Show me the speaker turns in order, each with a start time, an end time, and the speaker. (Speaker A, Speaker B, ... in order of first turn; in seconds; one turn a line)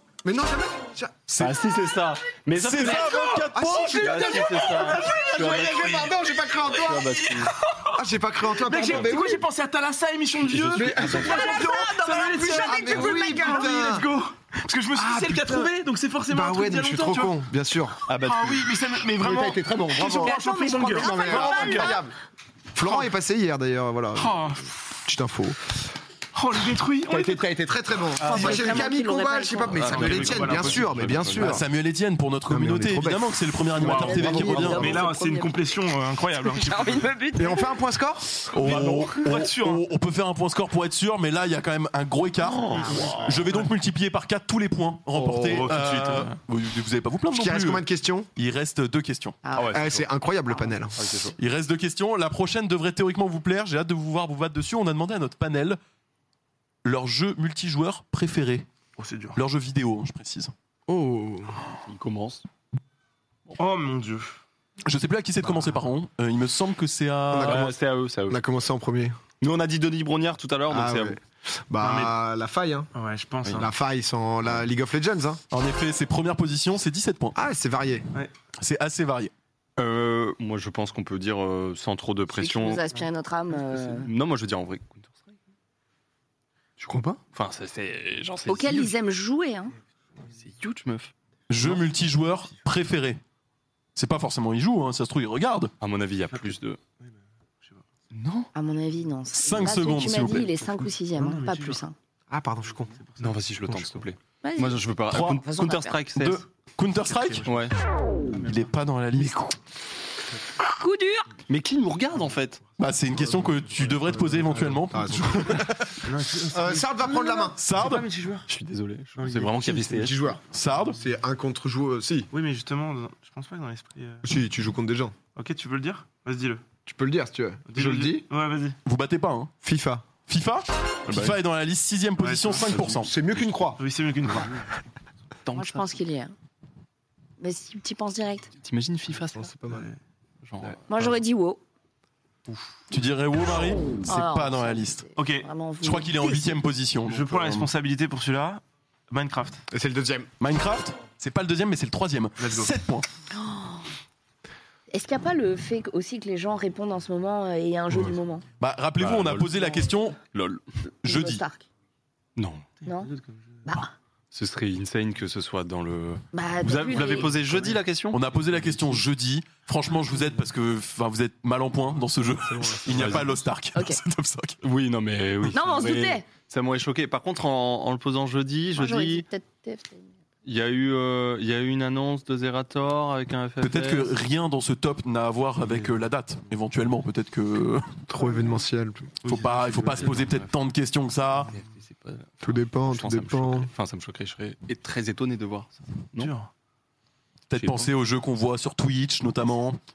Speaker A: 0.2-1.2
Speaker B: 1.3-1.6
Speaker C: 1.4-3.2
Speaker B: 2.5-4.1
Speaker D: 2.8-6.2
Speaker A: 3.5-7.2
Speaker C: 3.9-6.0
Speaker C: 6.7-7.5
Speaker D: 6.7-17.3
Speaker A: 7.9-9.4
Speaker C: 10.5-11.4
Speaker A: 10.7-14.1
Speaker E: 11.1-13.8
Speaker A: 15.0-15.7
Speaker A: 16.3-18.0
Speaker C: 18.1-18.7
Speaker D: 18.2-22.0
Speaker A: 19.1-20.4
Speaker E: 20.0-22.0
Speaker A: 20.9-22.1
Speaker A: 22.7-24.5
Speaker D: 22.8-23.1
Speaker D: 24.1-24.7
Speaker A: 25.0-25.7
Speaker D: 26.3-27.4
Speaker A: 27.1-31.6
Speaker D: 28.2-28.8
Speaker C: 28.2-28.8
Speaker E: 28.2-30.0
Speaker C: 29.7-31.6
Speaker D: 29.9-30.9
Speaker B: 31.4-35.0
Speaker A: 32.5-35.0
Speaker D: 33.8-37.1
Speaker E: 33.8-35.6
Speaker E: 36.5-37.8
Speaker A: 37.4-38.8
Speaker D: 38.5-39.8
Speaker B: 38.5-47.8
Speaker D: 42.7-43.7
Speaker E: 42.8-43.1
Speaker A: 42.8-43.5
Speaker C: 42.8-43.1
Speaker A: 45.2-45.7
Speaker D: 45.2-46.4
Speaker A: 47.3-48.3
Speaker B: 48.4-49.4
Speaker E: 49.4-49.8
Speaker C: 49.5-50.0
Speaker A: 49.7-51.0
Speaker C: 51.0-51.4
Speaker B: 51.4-55.8
Speaker B: 56.8-58.7
Speaker D: 59.0-59.4
Speaker B: 59.3-60.5
Speaker A: 60.9-61.6
Speaker C: 61.8-62.4
Speaker D: 63.5-64.4
Speaker B: 64.8-67.7
Speaker A: 67.3-67.8
Speaker C: 67.4-68.4
Speaker A: 68.3-69.2
Speaker C: 69.4-71.2
Speaker A: 70.7-72.9
Speaker D: 71.8-72.1
Speaker D: 72.9-73.7
Speaker A: 73.5-75.4
Speaker B: 75.5-77.3
Speaker A: 77.3-78.1
Speaker B: 78.6-79.3
Speaker C: 79.8-82.8
Speaker E: 82.3-84.1
Speaker C: 83.6-85.3
Speaker C: 86.8-88.9
Speaker E: 88.5-89.7
Speaker C: 90.3-91.1
Speaker B: 91.5-93.2
Speaker B: 94.0-95.7
Speaker C: 95.8-96.8
Speaker D: 96.3-97.8
Speaker C: 98.1-98.5
Speaker E: 98.5-101.9
Speaker B: 99.3-100.6
Speaker D: 101.2-101.8
Speaker A: 102.3-103.0
Speaker D: 103.0-104.0
Speaker C: 103.2-106.4
Speaker E: 104.4-106.0
Speaker B: 105.1-105.4
Speaker B: 106.2-107.5
Speaker D: 107.1-107.6
Speaker C: 107.4-107.7
Speaker B: 108.3-109.4
Speaker E: 110.6-111.3
Speaker C: 111.5-112.6
Speaker B: 112.8-115.9
Speaker A: 114.0-115.9
Speaker D: 116.0-118.5
Speaker A: 116.5-117.6
Speaker B: 117.6-118.0
Speaker C: 118.5-120.1
Speaker D: 119.2-119.8
Speaker A: 119.6-122.3
Speaker B: 120.5-121.0
Speaker D: 122.3-124.2
Speaker A: 124.2-125.2
Speaker D: 125.3-126.6
Speaker A: 126.8-128.2
Speaker D: 127.7-128.8
Speaker B: 128.8-129.5
Speaker A: 129.6-130.1
Speaker B: 130.3-133.1
Speaker C: 131.1-131.3
Speaker D: 132.2-132.8
Speaker C: 132.7-133.7
Speaker A: 132.9-133.8
Speaker D: 133.8-134.7
Speaker C: 135.4-136.0
Speaker E: 135.5-136.3
Speaker E: 137.4-138.5
Speaker C: 138.6-139.5
Speaker A: 139.3-139.9
Speaker D: 139.7-140.0
Speaker C: 140.4-141.1
Speaker E: 140.9-141.6
Speaker B: 142.9-145.0
Speaker E: 144.0-146.6
Speaker D: 145.2-145.5
Speaker B: 145.8-147.7
Speaker D: 147.1-149.6
Speaker A: 149.7-150.3
Speaker B: 150.4-153.1
Speaker A: 152.4-152.7
Speaker E: 153.3-153.8
Speaker E: 154.9-158.4
Speaker B: 158.6-160.2
Speaker C: 159.0-160.6
Speaker B: 161.0-161.4
Speaker E: 161.0-161.7
Speaker C: 162.4-162.7
Speaker D: 162.8-163.6
Speaker E: 162.8-163.1
Speaker E: 163.6-163.9
Speaker C: 164.3-168.2
Speaker E: 166.3-167.4
Speaker B: 168.1-174.6
Speaker A: 172.4-173.4
Speaker C: 172.9-173.3
Speaker E: 173.7-174.0
Speaker C: 174.6-179.2
Speaker E: 175.5-176.2
Speaker E: 178.8-180.1
Speaker C: 180.4-184.1
Speaker B: 183.6-187.9
Speaker A: 188.1-189.2
Speaker D: 189.2-190.2
Speaker B: 189.2-191.5
Speaker C: 190.0-190.4
Speaker C: 191.5-196.3
Speaker A: 192.4-193.7
Speaker D: 196.2-196.5
Speaker B: 197.5-199.8
Speaker C: 197.5-197.9